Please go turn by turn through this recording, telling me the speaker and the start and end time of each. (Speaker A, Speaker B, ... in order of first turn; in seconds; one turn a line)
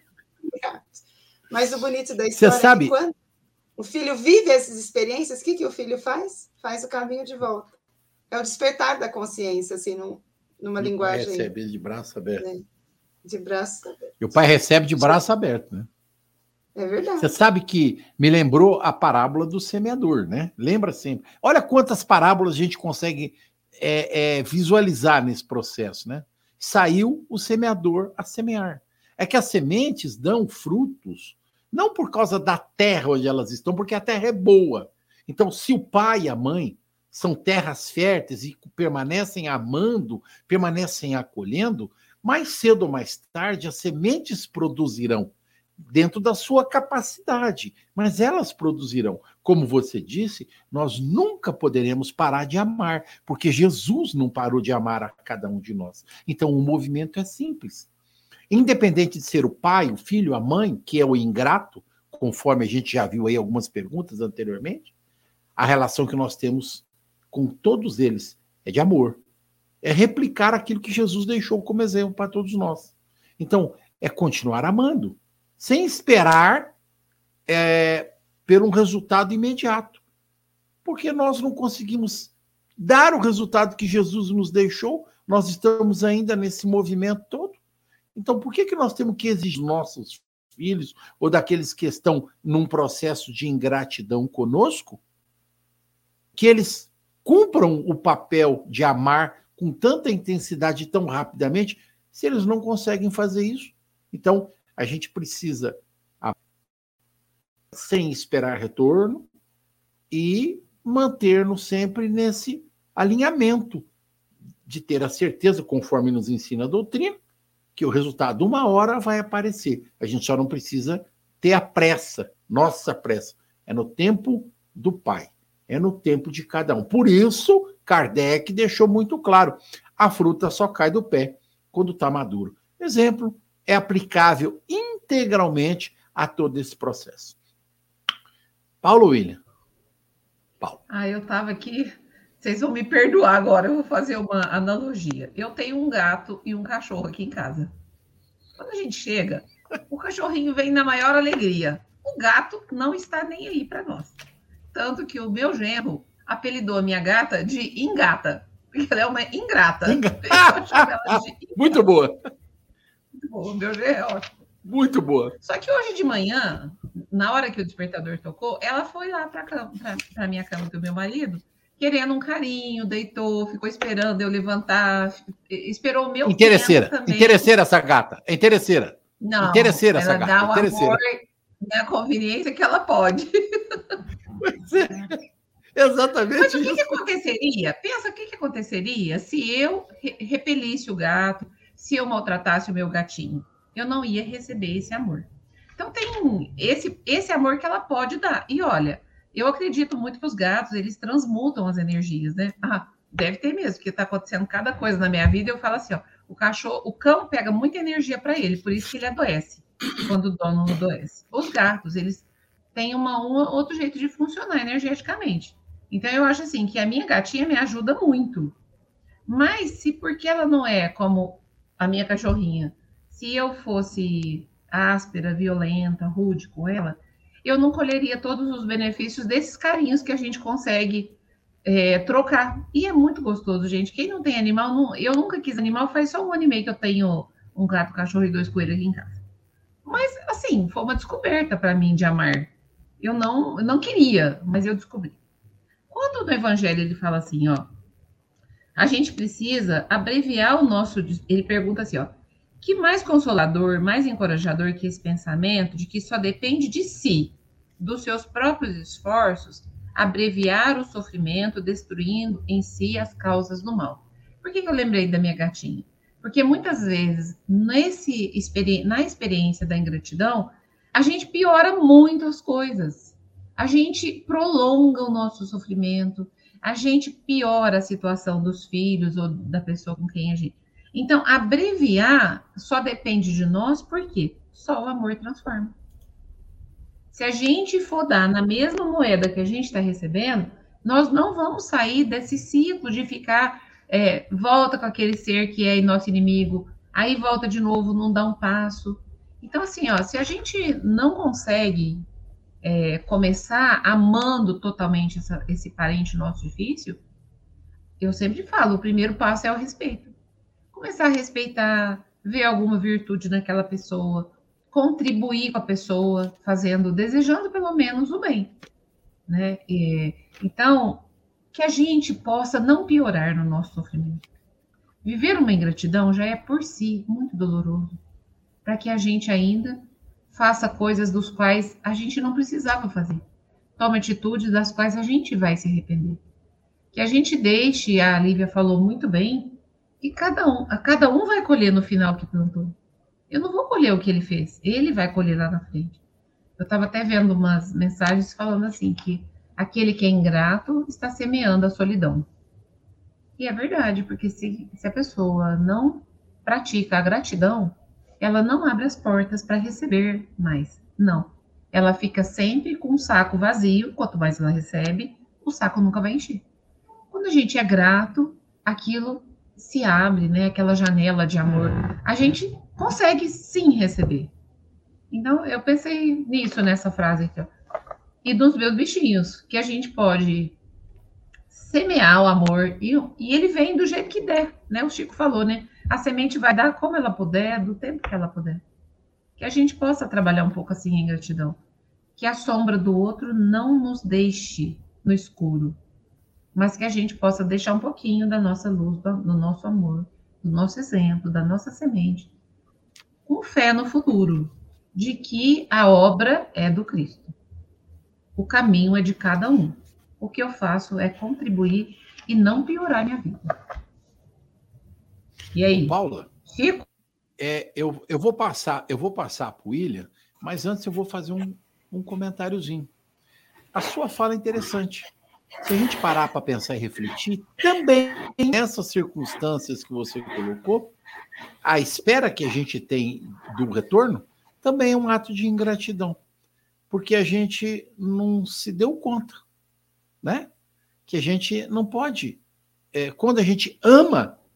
Speaker A: 0.5-3.1
Speaker B: 2.4-3.0
Speaker A: 3.8-7.7
Speaker A: 8.3-11.5
Speaker B: 10.8-12.5
Speaker A: 12.4-12.7
Speaker A: 13.2-14.4
Speaker B: 14.2-15.9
Speaker A: 16.8-17.3
Speaker B: 17.2-57.9
Speaker B: 58.5-64.9
Speaker B: 65.6-69.2
Speaker B: 69.8-76.7
Speaker B: 77.5-80.0
Speaker B: 80.8-87.6
Speaker B: 88.2-95.0
Speaker B: 96.3-106.3
Speaker B: 107.7-109.3
Speaker B: 110.1-113.9
Speaker B: 114.7-117.2
Speaker B: 117.8-137.4
Speaker B: 138.8-139.4
Speaker C: 140.9-147.7
Speaker C: 148.6-154.2
Speaker C: 154.7-161.9
Speaker B: 159.9-162.2
Speaker C: 163.1-164.3
Speaker B: 164.6-165.4
Speaker C: 165.4-177.5
Speaker B: 176.3-181.0
Speaker C: 179.2-184.0
Speaker B: 184.4-185.2
Speaker B: 185.8-187.0
Speaker C: 186.4-218.6
Speaker C: 219.3-239.2
Speaker C: 239.8-245.2
Speaker C: 245.9-247.7
Speaker C: 248.8-285.7
Speaker C: 287.1-302.1
Speaker C: 302.6-307.0
Speaker C: 308.0-310.1
Speaker C: 310.7-318.6
Speaker C: 319.3-324.3
Speaker C: 325.0-328.0
Speaker C: 328.6-333.2
Speaker C: 333.8-336.2
Speaker C: 336.9-342.8
Speaker C: 343.3-346.0
Speaker C: 346.6-352.3
Speaker C: 353.4-366.4
Speaker C: 367.1-374.3
Speaker C: 375.1-377.5
Speaker C: 378.2-380.6
Speaker C: 381.5-388.6
Speaker C: 389.4-391.6
Speaker C: 392.2-395.8
Speaker C: 396.5-402.3
Speaker C: 403.3-407.4
Speaker C: 408.4-413.5
Speaker C: 415.5-416.9
Speaker B: 415.8-416.3
Speaker B: 417.4-422.9
Speaker B: 423.7-425.1
Speaker B: 425.6-430.9
Speaker B: 431.6-436.2
Speaker B: 436.9-439.4
Speaker B: 440.2-440.5
Speaker B: 441.1-442.4
Speaker B: 442.9-444.4